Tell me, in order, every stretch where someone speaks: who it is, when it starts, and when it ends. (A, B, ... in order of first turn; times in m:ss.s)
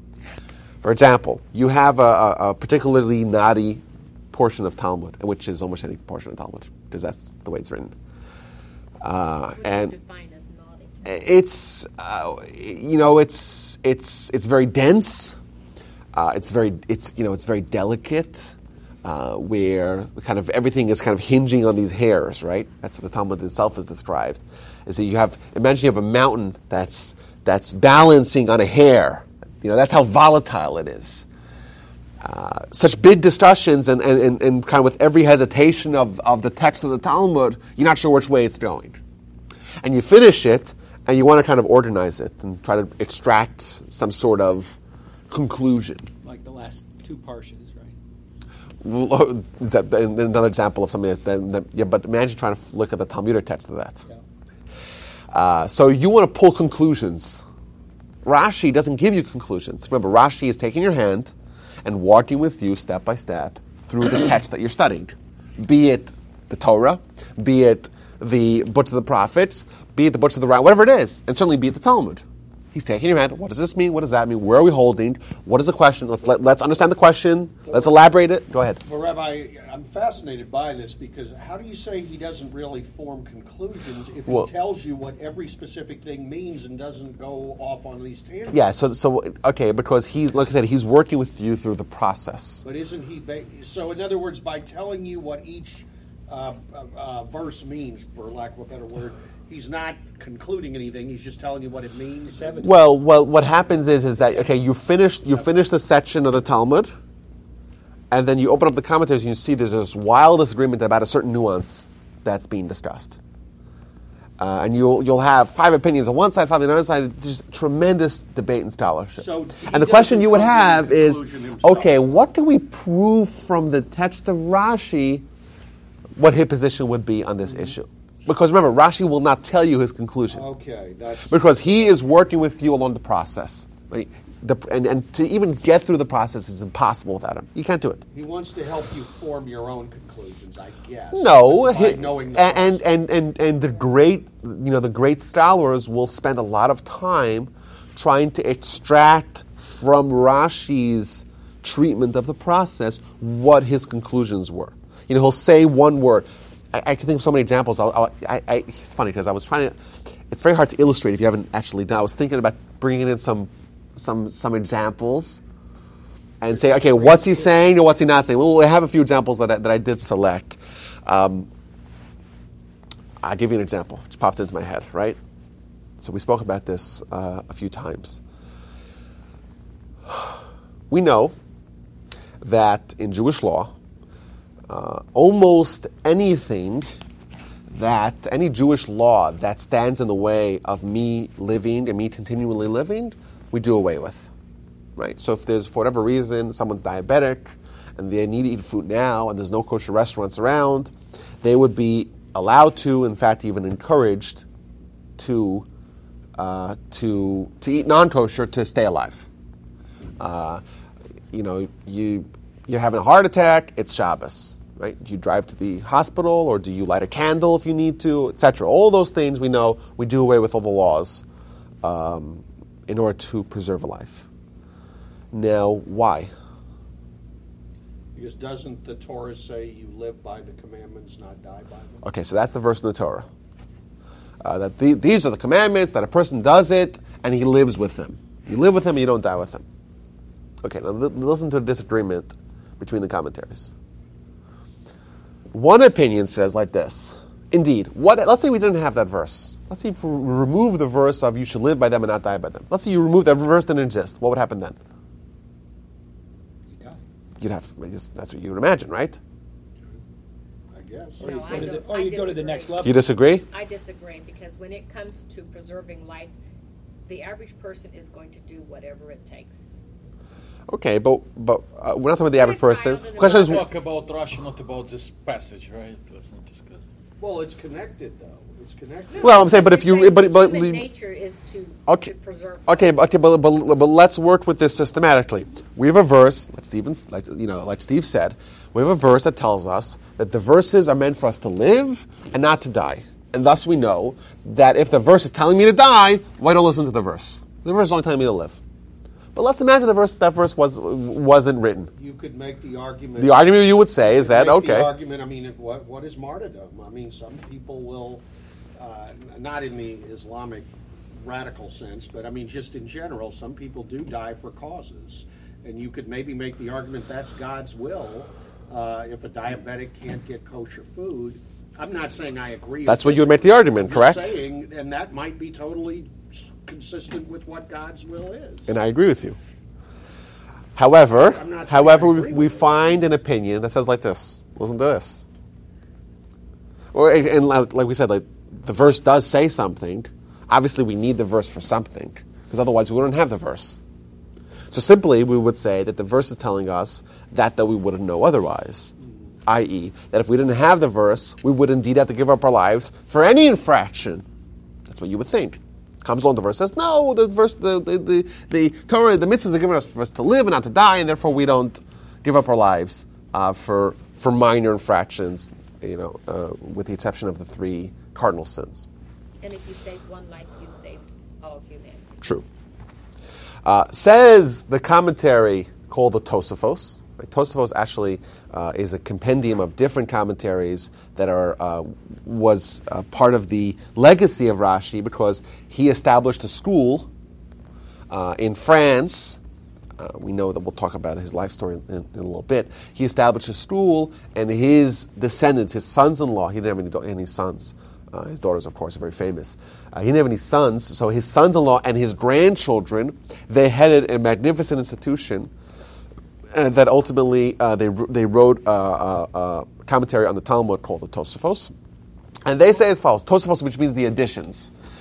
0:00.8-0:07.9 A
0:09.0-0:09.9 A
0:09.6-0:11.3 B
0:11.0-0:15.4 A
0:16.1-0:31.3 A
0:32.2-0:39.0 A
0:39.8-0:44.8 A
0:45.3-0:46.1 A
0:46.2-0:48.0 C
0:48.8-0:54.0 A
0:55.3-0:57.4 A
0:58.2-1:01.3 A
1:01.8-1:12.2 A
1:12.7-1:18.8 A
1:18.8-1:28.6 D
1:28.5-1:32.6 A
1:32.6-1:42.7 D
1:42.3-1:42.8 C
1:42.6-1:46.9 A
1:48.1-1:53.2 A
1:54.4-2:05.2 A
1:59.2-2:02.0 D
2:06.2-2:10.4 A
2:10.3-2:11.9 D
2:11.2-2:18.0 A
2:18.1-2:22.9 D
2:21.1-2:39.8 A
2:40.3-2:45.4 A
2:46.4-2:51.5 A
2:46.4-2:47.6 D
2:53.2-2:55.2 A
2:56.0-2:58.2 A
3:00.1-3:00.4 A
3:00.9-3:01.3 A
3:02.4-3:03.7 A
3:04.7-3:06.9 A
3:07.7-3:14.3 A
3:15.0-3:24.4 A
3:25.2-3:25.7 A
3:26.4-3:29.3 A
3:30.2-3:30.6 A
3:31.3-3:41.2 A
3:41.8-3:44.2 A
3:45.3-3:46.3 A
3:48.1-3:52.0 D
3:52.0-3:53.3 A
3:54.4-3:59.6 A
4:00.6-4:03.7 A
4:05.5-4:14.8 A
4:16.7-4:17.0 C
4:17.4-4:19.2 A
4:20.7-4:21.8 D
4:21.2-4:26.3 B
4:21.2-4:23.0 C
4:22.8-4:23.4 A
4:27.1-4:29.8 B
4:30.7-4:33.6 A
4:32.3-4:33.6 B
4:33.2-4:36.8 E
4:37.2-4:39.8 D
4:39.1-4:43.0 B
4:39.2-4:40.8 A
4:42.6-4:58.6 A
4:59.3-5:01.9 A
5:02.0-5:08.2 D
5:03.2-5:04.9 A
5:08.8-5:28.7 D
5:22.8-5:24.4 A
5:28.7-5:29.4 A
5:30.8-5:35.2 A
5:31.1-5:32.8 D
5:36.9-5:43.8 A
5:44.7-5:48.9 A
5:49.4-5:54.2 A
5:54.9-6:08.9 A
6:09.4-6:12.2 B
6:13.6-6:27.1 A
6:28.1-6:29.4 A
6:30.0-6:45.5 A
6:46.5-6:51.7 A
6:52.4-6:54.7 A